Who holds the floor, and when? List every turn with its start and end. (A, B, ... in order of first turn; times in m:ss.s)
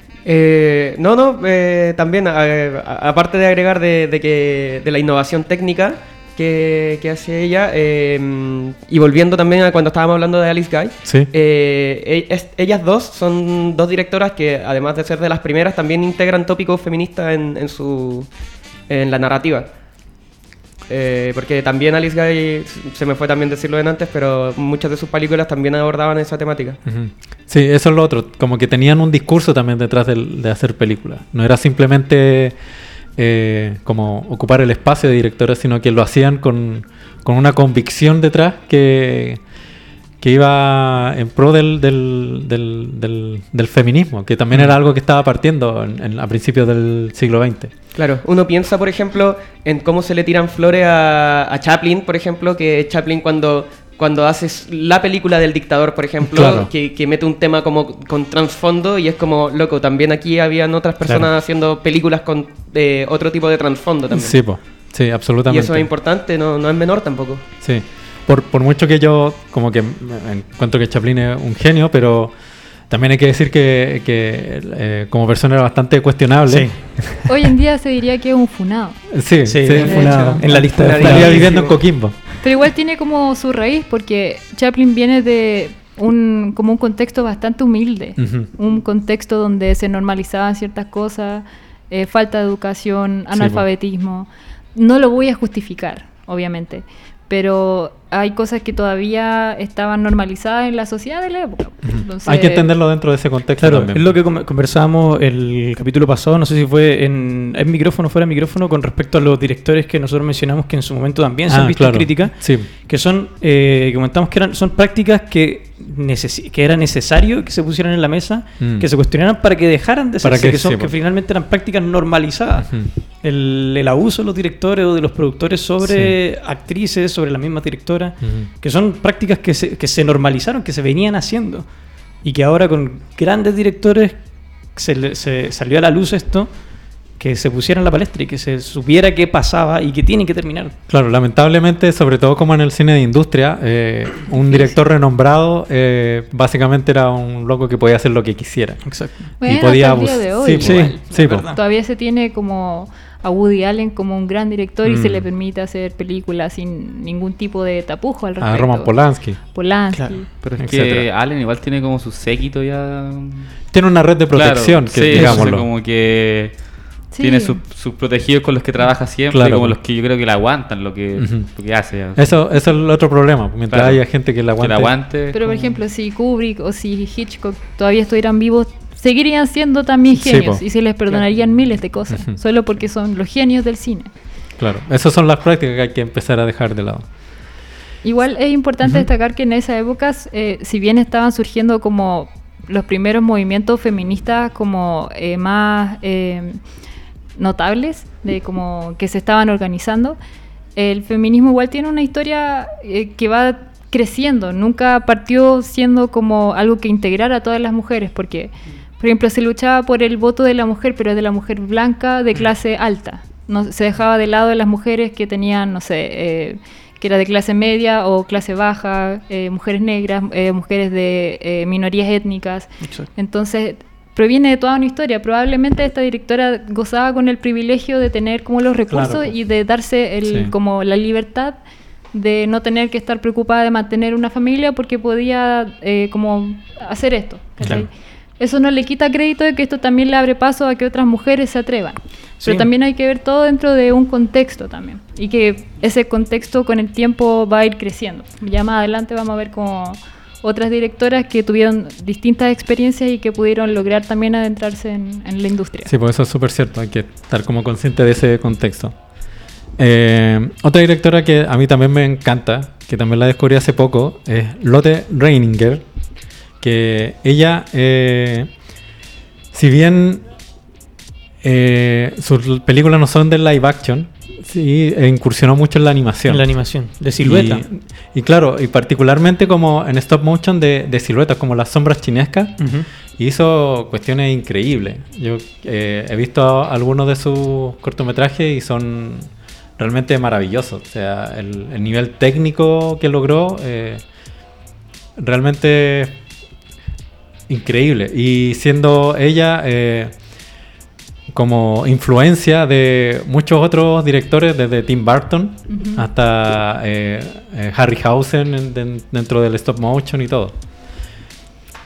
0:00.2-0:18.3 A
0:11.0-0:11.3 B
0:18.9-0:19.7 A
0:20.9-0:26.8 A
0:26.9-0:32.6 B
0:33.2-0:39.4 B
0:40.2-0:47.7 B
0:47.9-1:04.4 A
0:56.2-0:56.7 B
1:04.1-1:05.9 B
1:05.5-1:07.4 A
1:07.6-1:12.4 B
1:12.9-1:17.4 B
1:16.5-1:16.8 C
1:17.2-1:19.0 D
1:19.1-1:22.2 B
1:19.4-1:21.6 C
1:19.8-1:21.8 A
1:19.8-1:20.4 D
1:22.4-1:42.7 D
1:28.2-1:28.5 B
1:33.3-1:33.6 B
1:41.9-1:44.2 B
1:43.6-2:20.8 C
1:51.5-1:52.7 B
1:58.6-1:58.9 B
2:00.2-2:00.9 B
2:02.6-2:02.9 B
2:05.8-2:06.2 B
2:08.2-2:08.5 B
2:20.9-2:31.5 B
2:28.8-2:29.3 C
2:29.4-2:40.3 D
2:30.6-2:31.6 C
2:34.8-2:35.3 B
2:38.4-2:39.4 B
2:39.9-2:40.3 C
2:40.4-2:43.5 E
2:40.6-2:41.1 B
2:43.7-2:45.7 B
2:44.3-2:52.4 E
2:45.1-2:45.5 C
2:47.1-2:47.6 D
2:49.3-2:49.8 B
2:51.2-2:51.5 B
2:52.2-2:55.0 B
2:53.7-2:54.0 E
2:54.6-2:55.6 E
2:55.3-3:04.1 D
3:00.2-3:00.6 B
3:02.1-3:02.4 B
3:04.6-3:07.1 B
3:08.0-3:16.6 D
3:17.4-3:20.2 D
3:20.8-3:51.6 D
3:42.8-3:43.1 C
3:48.9-3:49.4 B
3:50.3-3:50.5 B
3:52.1-4:15.9 D
3:57.6-3:57.9 B
4:02.4-4:02.7 C
4:15.9-4:19.0 B
4:19.8-4:25.8 B
4:26.6-4:28.5 B
4:29.5-4:30.2 B
4:31.4-4:36.5 B
4:36.3-4:37.6 C
4:37.2-4:54.0 B
4:42.6-4:42.9 C
4:55.2-4:56.2 B
4:57.5-5:00.1 B
5:01.3-5:10.6 B
5:05.7-5:06.1 D